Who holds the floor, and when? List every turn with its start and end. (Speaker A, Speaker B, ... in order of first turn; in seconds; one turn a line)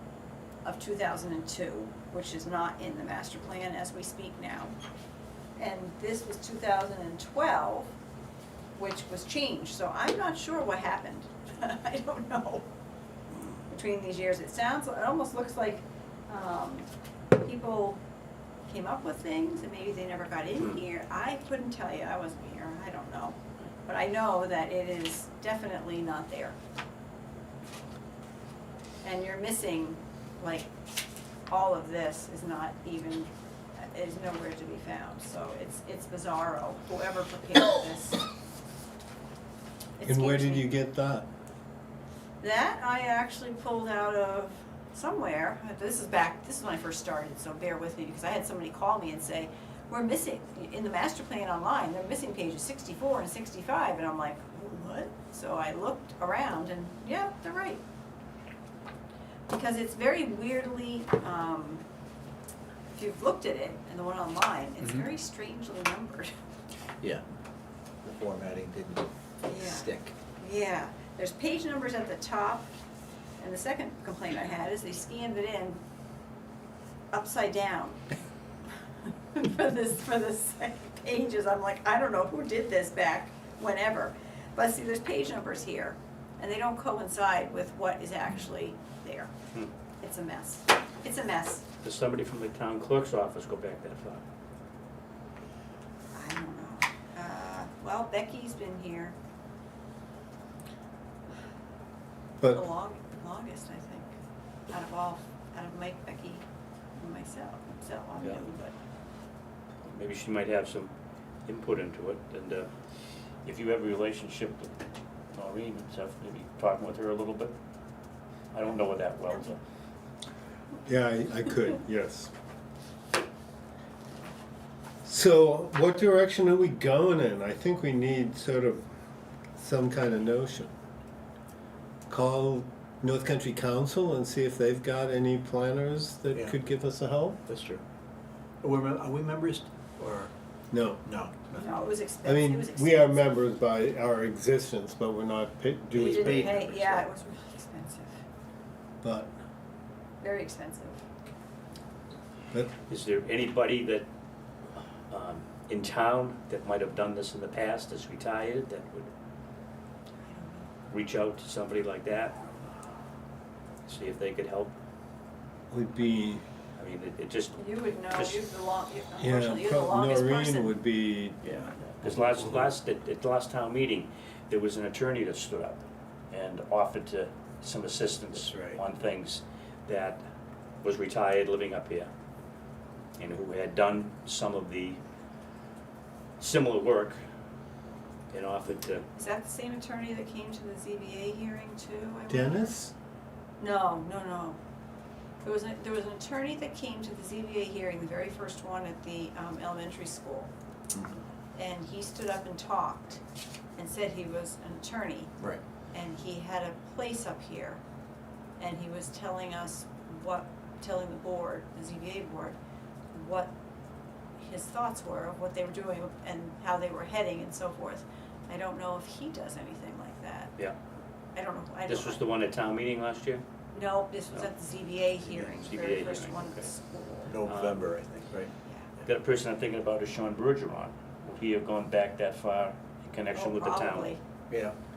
Speaker A: 0.6-4.8
Speaker A: 5.6-7.9
Speaker A: 8.8-12.7
Speaker A: 13.7-16.9
Speaker A: 17.4-18.0
Speaker A: 18.7-26.6
Speaker A: 29.0-30.7
Speaker A: 31.5-38.3
Speaker A: 40.0-40.7
Speaker B: 40.0-41.3
Speaker A: 42.4-57.8
Speaker A: 59.5-61.8
Speaker A: 62.9-66.3
Speaker C: 64.8-65.1
Speaker C: 68.0-70.1
Speaker A: 69.5-72.7
Speaker A: 73.4-75.8
Speaker A: 77.1-78.0
Speaker A: 79.3-89.3
Speaker A: 90.0-91.7
Speaker D: 91.8-94.2
Speaker A: 96.1-99.2
Speaker B: 102.4-102.7
Speaker A: 102.5-104.1
Speaker A: 104.7-106.4
Speaker A: 107.0-108.8
Speaker D: 108.2-108.4
Speaker D: 109.9-110.9
Speaker D: 111.5-112.7
Speaker D: 113.4-114.7
Speaker D: 115.3-117.5
Speaker D: 118.5-119.6
Speaker B: 120.9-122.3
Speaker B: 125.0-128.9
Speaker B: 129.6-130.7
Speaker B: 132.1-137.4
Speaker C: 137.5-137.8
Speaker C: 138.6-140.3
Speaker B: 140.7-141.0
Speaker C: 141.1-141.7
Speaker A: 141.6-143.2
Speaker B: 142.2-146.7
Speaker C: 145.9-147.1
Speaker A: 145.9-148.2
Speaker B: 149.0-149.3
Speaker A: 150.2-151.0
Speaker D: 152.9-154.1
Speaker D: 155.1-159.1
Speaker A: 160.2-160.7
Speaker D: 160.9-162.4
Speaker D: 163.8-164.8
Speaker B: 165.7-166.4
Speaker D: 166.8-168.4
Speaker A: 167.6-170.7
Speaker B: 169.2-171.4
Speaker D: 171.5-180.2
Speaker C: 178.4-178.8
Speaker D: 180.8-182.1
Speaker D: 183.2-185.0
Speaker D: 186.4-187.2
Speaker D: 188.3-189.1
Speaker A: 189.2-192.8
Speaker B: 192.3-192.9
Speaker A: 193.6-194.6
Speaker A: 195.4-200.5
Speaker A: 201.6-203.2
Speaker A: 203.8-205.3
Speaker A: 205.9-207.8
Speaker A: 208.6-212.6
Speaker A: 213.1-213.5
Speaker A: 214.4-220.5
Speaker A: 221.3-222.2
Speaker D: 221.9-223.4
Speaker A: 223.7-227.3
Speaker D: 225.5-226.7
Speaker C: 227.3-228.5
Speaker D: 227.4-227.8
Speaker D: 229.0-234.2
Speaker A: 233.3-234.2
Speaker C: 234.5-234.8